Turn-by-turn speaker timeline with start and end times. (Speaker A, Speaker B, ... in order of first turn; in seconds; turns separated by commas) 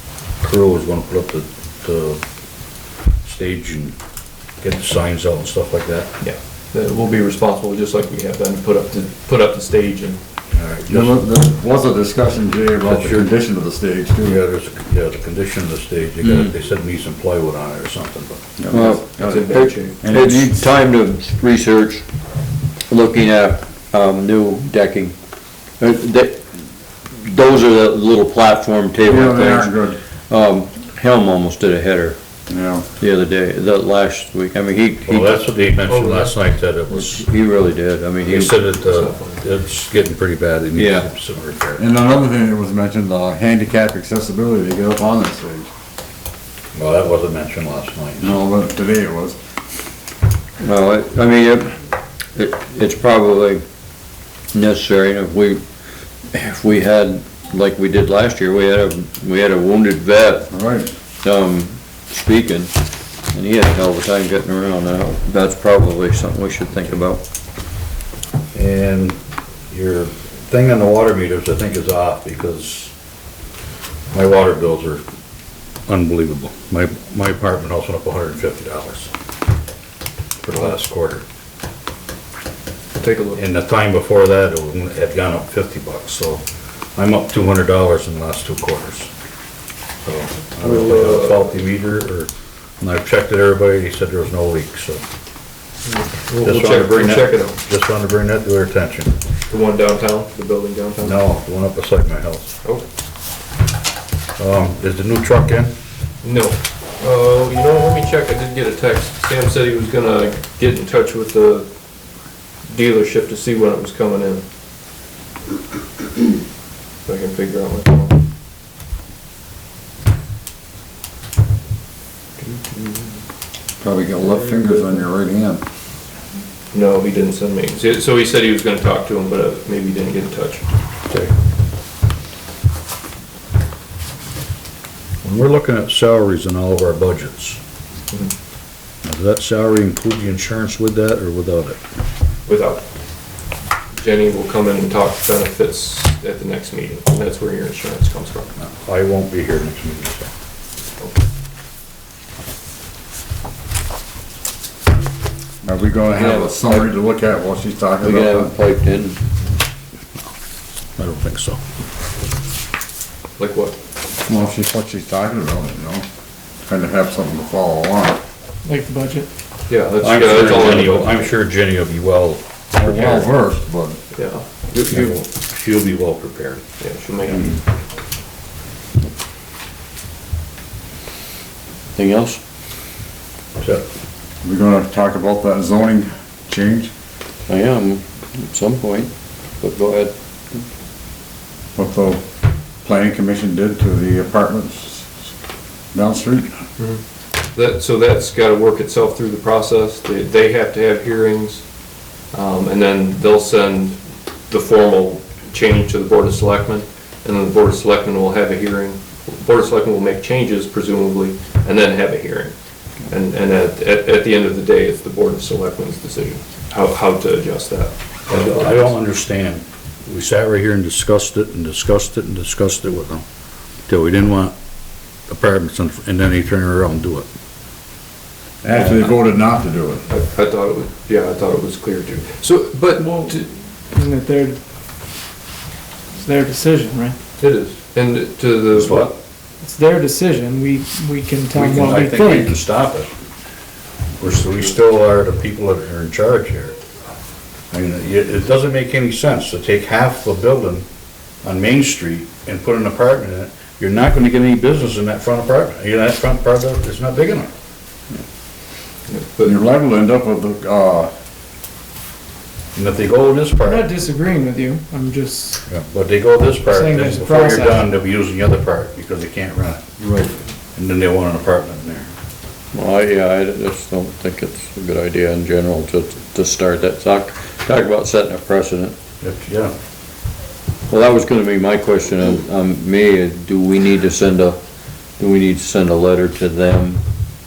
Speaker A: 0.4-2.2, Speaker A: 3.2-4.0, Speaker A: 4.6-6.1, Speaker B: 6.2-10.2, Speaker A: 10.5-11.2, Speaker C: 10.9-14.4, Speaker A: 12.8-13.3, Speaker A: 14.2-18.4, Speaker C: 18.6-20.7, Speaker D: 18.7-22.0, Speaker B: 19.2-20.0, Speaker D: 22.9-25.1, Speaker D: 25.8-26.5, Speaker D: 27.1-29.7, Speaker C: 29.0-30.0, Speaker D: 30.3-32.2, Speaker C: 32.5-32.9, Speaker D: 33.0-35.5, Speaker A: 35.0-37.2, Speaker B: 35.9-36.4, Speaker D: 36.9-38.5, Speaker A: 38.2-41.8, Speaker B: 38.7-39.4, Speaker D: 40.7-41.1, Speaker C: 41.8-45.7, Speaker A: 46.7-48.4, Speaker C: 48.2-49.4, Speaker D: 50.6-51.7, Speaker D: 52.3-53.6, Speaker D: 54.5-55.6, Speaker D: 56.3-60.5, Speaker C: 60.5-60.9, Speaker D: 61.2-62.7, Speaker D: 63.3-67.2, Speaker A: 68.5-69.2, Speaker A: 69.7-72.9, Speaker A: 74.1-75.0, Speaker A: 75.9-79.1, Speaker A: 80.4-81.2, Speaker B: 83.0-83.4, Speaker A: 83.3-86.4, Speaker A: 87.0-89.1, Speaker A: 90.0-95.0, Speaker B: 90.5-91.6, Speaker B: 95.8-97.6, Speaker A: 96.4-99.1, Speaker B: 99.5-101.2, Speaker A: 101.0-102.5, Speaker A: 104.4-105.7, Speaker B: 106.2-111.7, Speaker B: 112.7-114.4, Speaker B: 117.0-118.2, Speaker C: 123.8-125.6, Speaker B: 124.2-125.0, Speaker B: 126.7-131.3, Speaker A: 135.2-137.6, Speaker A: 139.0-141.8, Speaker B: 142.4-142.8, Speaker B: 143.9-148.5, Speaker A: 148.6-150.3, Speaker C: 155.6-158.5, Speaker D: 156.1-156.9, Speaker D: 158.0-159.2, Speaker A: 161.0-161.6, Speaker B: 163.4-163.8, Speaker C: 164.2-166.1, Speaker C: 166.7-168.2, Speaker E: 168.6-169.3, Speaker B: 169.7-171.3, Speaker A: 170.0-173.2, Speaker C: 172.7-174.0, Speaker B: 174.1-175.2, Speaker A: 174.9-176.6, Speaker B: 176.8-177.6, Speaker A: 177.3-177.6, Speaker D: 181.9-182.4, Speaker C: 184.4-186.9, Speaker D: 187.5-190.7, Speaker C: 191.8-192.2, Speaker C: 192.8-195.1, Speaker C: 195.9-196.6, Speaker B: 197.5-201.6, Speaker B: 202.3-212.5, Speaker B: 213.1-219.0, Speaker A: 218.3-223.2, Speaker A: 223.9-224.5, Speaker A: 225.3-227.3, Speaker C: 228.6-230.1, Speaker B: 228.7-229.2, Speaker B: 230.1-233.5, Speaker E: 233.0-233.4, Speaker E: 233.9-234.6, Speaker E: 236.1-237.2, Speaker B: 237.4-239.2, Speaker A: 238.7-239.1, Speaker E: 239.6-242.6, Speaker A: 241.5-243.1, Speaker A: 244.2-246.8, Speaker A: 247.7-250.8, Speaker A: 251.4-257.5, Speaker B: 259.1-259.5, Speaker C: 259.4-261.1, Speaker A: 262.7-263.9, Speaker E: 263.6-265.6, Speaker A: 265.7-269.9, Speaker E: 266.6-267.8, Speaker D: 270.0-270.3, Speaker A: 270.8-272.1, Speaker D: 272.7-278.9, Speaker A: 279.2-279.7, Speaker D: 280.9-284.6, Speaker D: 285.2-287.0